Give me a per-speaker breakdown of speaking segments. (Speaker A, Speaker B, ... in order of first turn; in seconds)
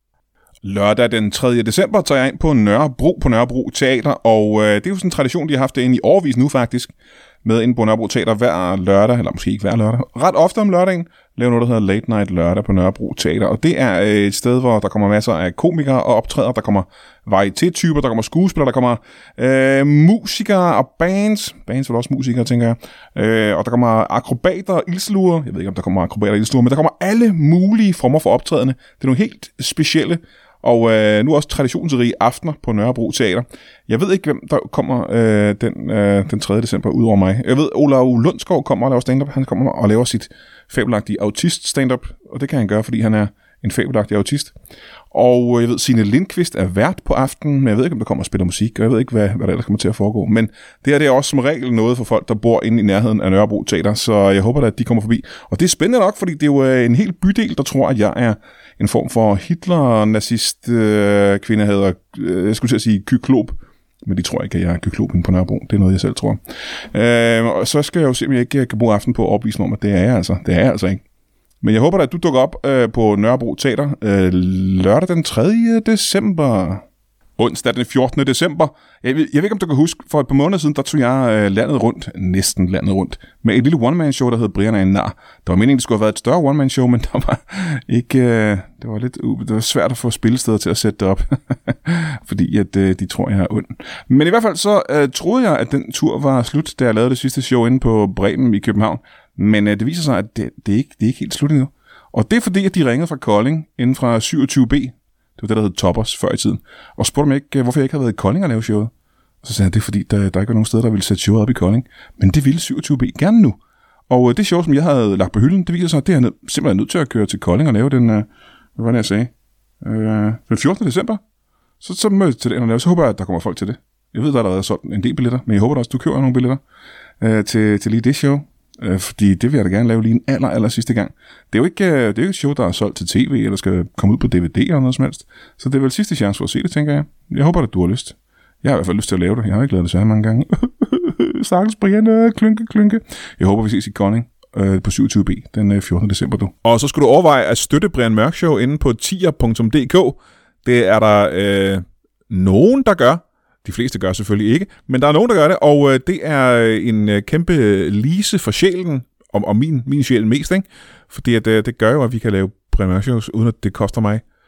Speaker A: 0.6-44.5, 45.1-71.0, 71.6-76.8, 77.4-108.9, 109.4-121.2, 121.8-126.6, 127.2-164.2